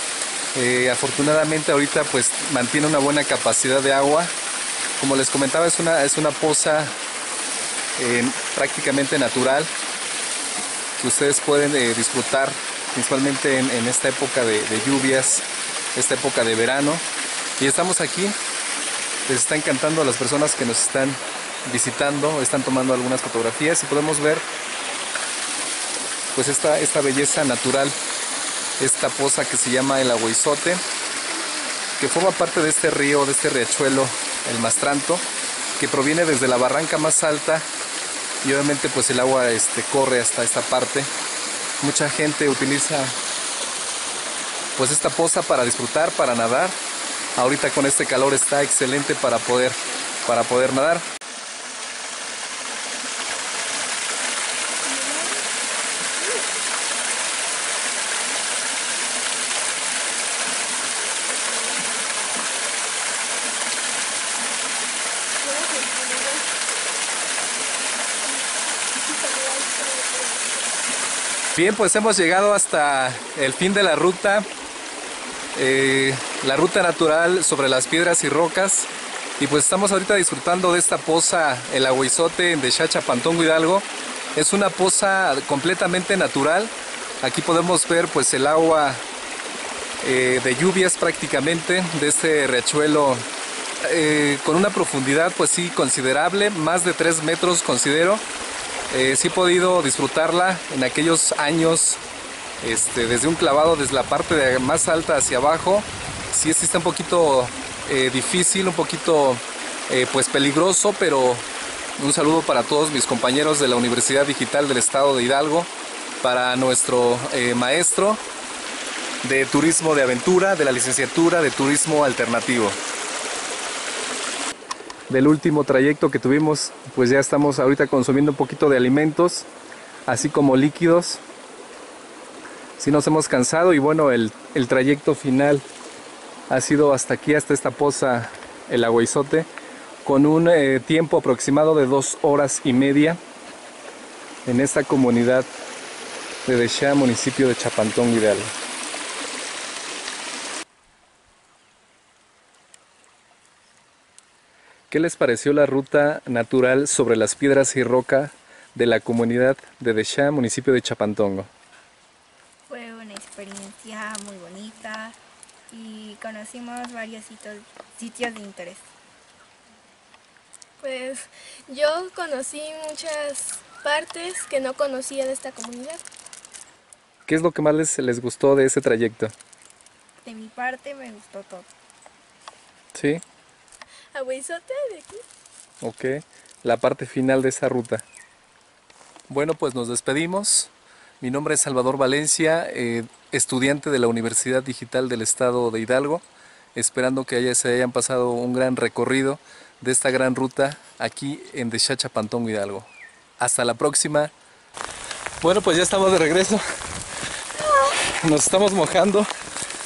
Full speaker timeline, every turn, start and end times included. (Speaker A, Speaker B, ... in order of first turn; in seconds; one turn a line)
Speaker A: 0.5-4.3
Speaker A: 5.0-7.0
Speaker A: 8.0-9.7
Speaker A: 11.0-17.1
Speaker A: 17.6-18.4
Speaker A: 19.3-24.5
Speaker A: 26.3-28.0
Speaker A: 28.8-30.8
Speaker A: 32.0-35.3
Speaker A: 35.8-37.7
Speaker A: 38.4-41.1
Speaker A: 41.8-43.1
Speaker A: 44.8-46.8
Speaker A: 47.4-51.1
Speaker B: 54.9-55.5
Speaker B: 56.2-56.5
Speaker B: 61.3-62.5
Speaker B: 65.4-66.5
Speaker B: 69.0-70.6
Speaker A: 71.6-74.5
Speaker A: 75.5-89.0
Speaker A: 90.0-93.3
Speaker A: 93.8-98.2
Speaker A: 98.9-102.0
Speaker A: 102.6-111.5
Speaker A: 112.0-115.7
Speaker A: 116.2-118.2
Speaker A: 119.2-122.8
Speaker A: 125.1-129.5
Speaker A: 130.1-131.2
Speaker A: 132.8-135.7
Speaker A: 136.5-139.5
Speaker A: 140.0-143.2
Speaker A: 144.5-145.5
Speaker A: 146.4-148.6
Speaker A: 154.9-161.5
Speaker C: 162.7-165.2
Speaker C: 165.7-168.9
Speaker B: 170.8-176.0
Speaker A: 177.3-179.3
Speaker C: 180.2-181.7
Speaker A: 182.9-183.2
Speaker B: 184.1-185.2
Speaker A: 185.8-188.1
Speaker A: 189.3-204.3
Speaker A: 205.4-206.6
Speaker A: 207.7-209.3